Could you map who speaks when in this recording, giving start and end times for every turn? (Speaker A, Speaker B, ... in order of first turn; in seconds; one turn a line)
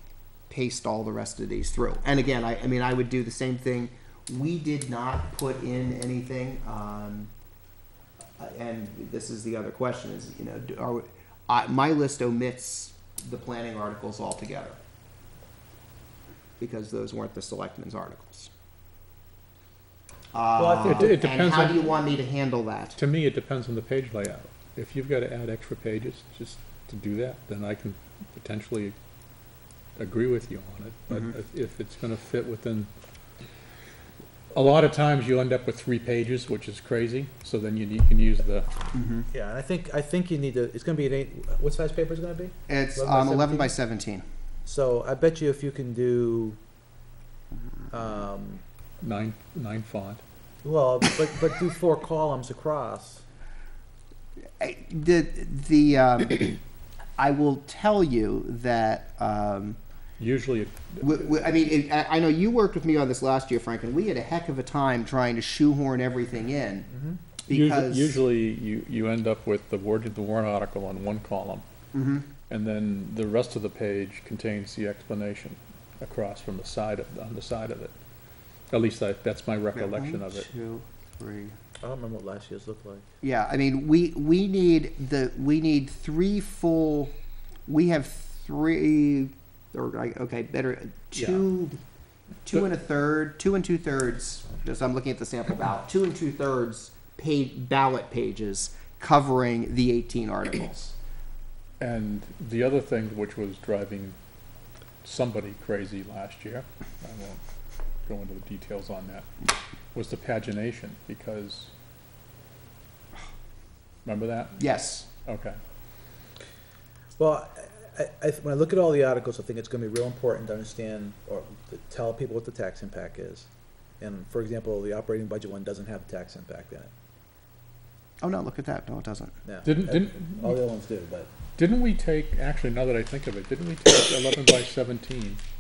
Speaker A: 0.5-7.3
Speaker A: 8.4-14.8
Speaker A: 16.6-18.5
Speaker A: 20.3-23.0
Speaker B: 20.6-21.1
Speaker C: 20.8-22.0
Speaker C: 23.0-28.9
Speaker C: 30.0-32.9
Speaker C: 34.5-38.7
Speaker A: 38.9-39.3
Speaker B: 39.3-43.7
Speaker A: 42.7-44.2
Speaker B: 44.6-46.6
Speaker B: 47.9-48.6
Speaker C: 49.0-50.2
Speaker B: 50.6-53.2
Speaker A: 54.6-56.6
Speaker A: 57.2-59.8
Speaker C: 60.2-61.5
Speaker A: 61.0-66.9
Speaker B: 66.9-67.2
Speaker A: 67.5-68.2
Speaker C: 67.5-71.7
Speaker A: 71.9-72.3
Speaker C: 72.5-77.9
Speaker C: 78.7-80.5
Speaker A: 79.8-81.5
Speaker B: 81.8-83.1
Speaker A: 83.2-87.1
Speaker A: 87.7-91.8
Speaker A: 92.5-101.0
Speaker C: 101.8-104.2
Speaker C: 105.0-107.4
Speaker C: 108.1-109.3
Speaker C: 109.9-111.7
Speaker C: 114.1-114.6
Speaker A: 114.6-115.1
Speaker C: 115.3-115.6
Speaker B: 117.2-123.5
Speaker B: 124.0-126.9
Speaker A: 128.2-129.3
Speaker B: 129.5-131.3
Speaker C: 129.6-130.6
Speaker C: 131.6-135.4